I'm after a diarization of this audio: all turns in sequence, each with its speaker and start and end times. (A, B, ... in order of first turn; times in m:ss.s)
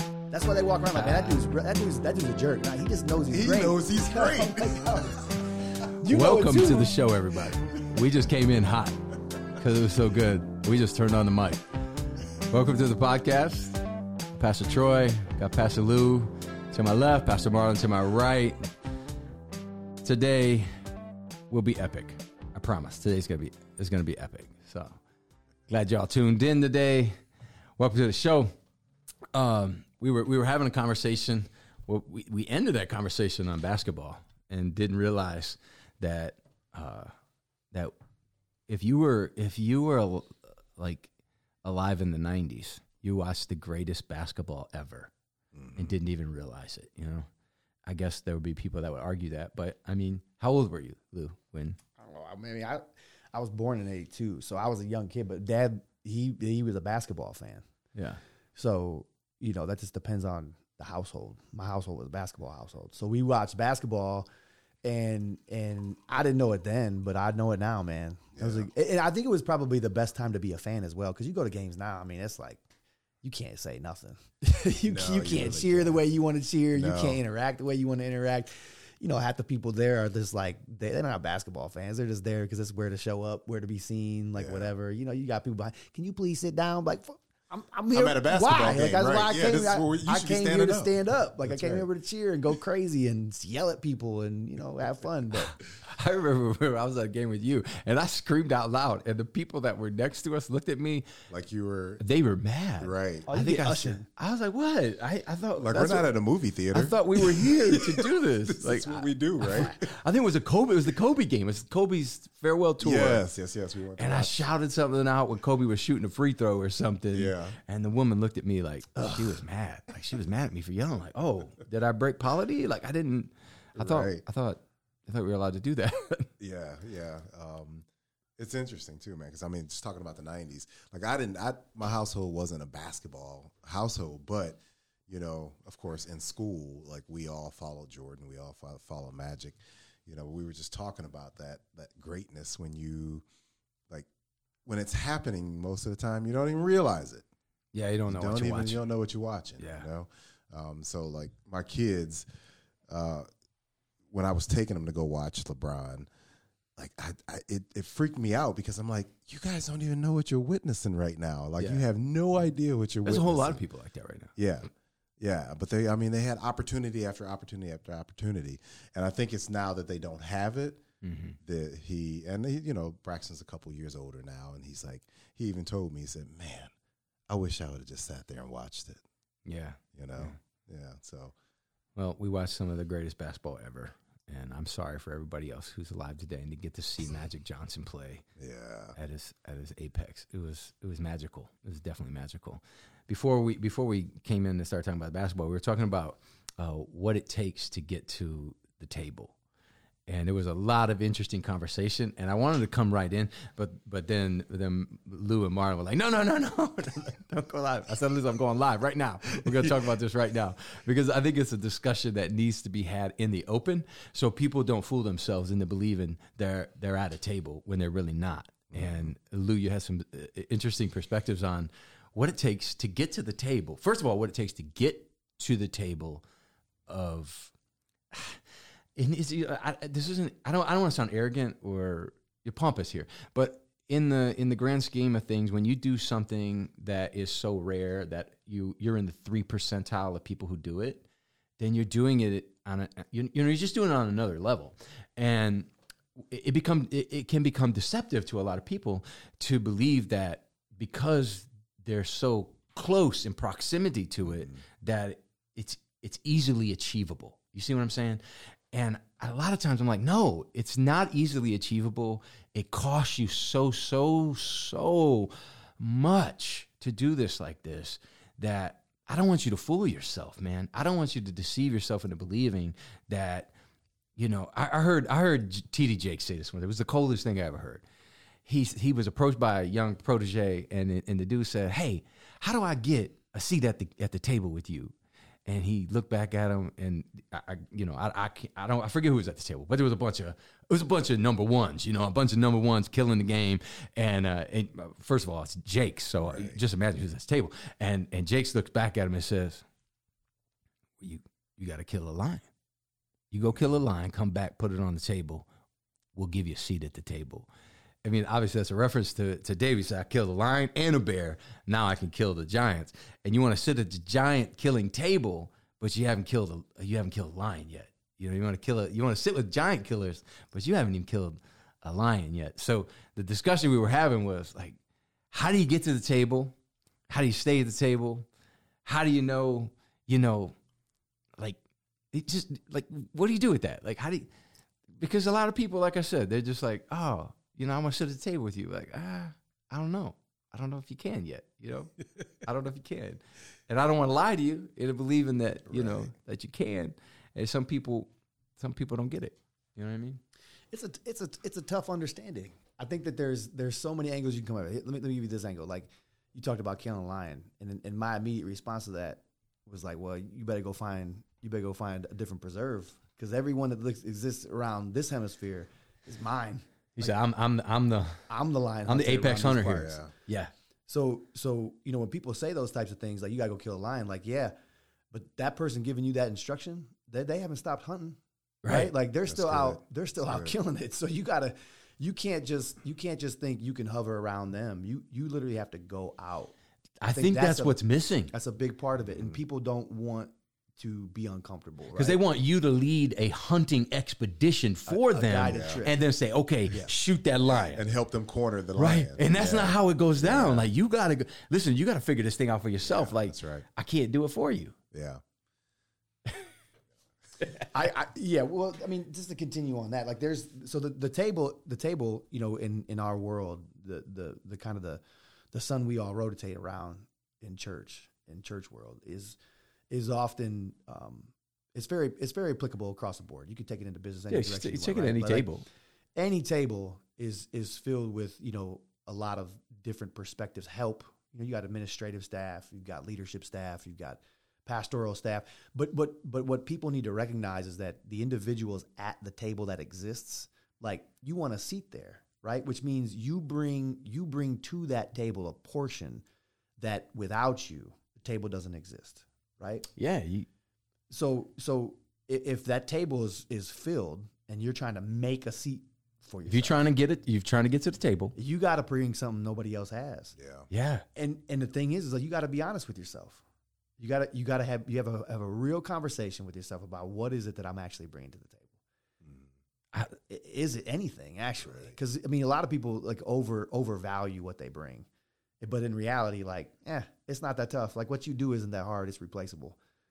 0:00.3-0:05.2 A
0:00.9-0:01.5 B
0:03.3-0:05.3 C
0:06.0-0:06.9 A
0:06.1-0:09.0 B
0:09.6-0:11.6 B
0:12.5-0:13.8 B
0:14.3-0:18.7 B
0:20.0-0:20.7 B
0:21.5-0:25.0 B
0:25.7-0:27.2 B
0:27.8-0:28.5 B
0:29.3-0:37.1 B
0:38.7-0:41.1 B
0:41.6-0:45.1 B
0:45.5-0:46.0 C
0:45.8-0:47.3 B
0:47.8-0:51.8 B
0:52.0-0:57.6 A
0:57.9-0:58.2 B
0:58.6-1:04.3 A
1:04.8-1:12.6 A
1:08.4-1:08.7 C
1:13.2-1:35.5 A
1:14.9-1:16.0 C
1:16.7-1:17.2 C
1:24.4-1:24.7 C
1:27.9-1:31.9 C
1:35.8-1:41.1 B
1:41.3-1:42.0 C
1:42.0-1:46.1 B
1:42.8-1:43.3 C
1:43.3-1:44.0 A
1:45.6-1:49.8 C
1:46.7-1:53.2 B
1:52.8-1:54.5 C
1:54.0-2:06.3 B
1:57.1-1:57.6 C
2:03.8-2:04.2 C
2:06.4-2:07.8 C
2:08.4-2:23.2 C
2:24.6-2:27.2 C
2:27.7-2:28.8 B
2:28.1-2:32.2 C
2:29.6-2:29.8 B
2:32.9-2:33.3 C
2:34.1-2:36.1 C
2:36.8-2:43.6 C
2:41.6-2:41.8 B
2:43.0-2:44.3 B
2:44.4-2:50.8 C
2:51.0-2:51.4 B
2:51.4-2:56.7 C
2:57.3-2:59.0 C
2:59.4-3:00.4 B
2:59.9-3:01.3 C
3:02.0-3:08.2 B
3:08.4-3:09.0 C
3:09.0-3:19.3 B
3:20.1-3:46.2 B
3:38.7-3:39.1 C
3:46.9-3:47.5 B
3:48.1-3:48.4 B
3:49.0-4:01.0 B
4:01.6-4:18.2 B
4:14.2-4:14.5 C
4:18.7-4:33.5 B
4:34.2-4:37.8 B
4:38.4-4:44.9 B
4:45.4-4:59.6 B
4:56.2-4:56.6 C
5:01.0-5:02.4 B
5:03.3-5:05.4 B
5:06.1-5:07.5 B
5:08.0-5:24.8 B
5:25.3-5:26.5 B
5:27.1-5:28.2 B
5:28.8-5:30.5 B
5:32.1-5:34.3 B
5:35.0-5:41.9 B
5:42.4-5:50.2 B
5:45.7-5:46.1 C
5:50.7-6:07.1 A
6:07.0-6:08.2 B
6:08.3-6:10.0 A
6:08.9-6:10.5 B
6:09.8-6:10.1 C
6:10.9-6:14.5 A
6:15.1-6:26.5 A
6:18.6-6:18.9 B
6:19.3-6:20.5 C
6:27.0-6:28.3 B
6:27.1-6:32.2 A
6:31.9-6:37.8 B
6:34.9-6:36.0 A
6:35.5-6:35.8 C
6:37.5-6:40.7 C
6:38.8-6:44.8 B
6:42.8-6:43.6 C
6:44.9-6:45.2 C
6:47.4-6:47.7 B
6:47.7-6:55.0 A
6:55.5-6:59.4 A
6:59.9-7:05.5 A
7:04.3-7:05.6 B
7:06.2-7:26.2 A
7:26.8-7:29.9 A
7:30.0-7:30.5 B
7:31.1-7:36.8 A
7:36.5-7:38.3 B
7:38.4-7:40.3 A
7:40.4-7:40.7 C
7:40.7-7:41.0 B
7:41.1-7:43.4 A
7:44.0-7:48.7 A
7:49.2-7:49.5 C
7:50.2-7:55.1 A
7:51.7-7:51.9 C
7:55.6-7:59.8 A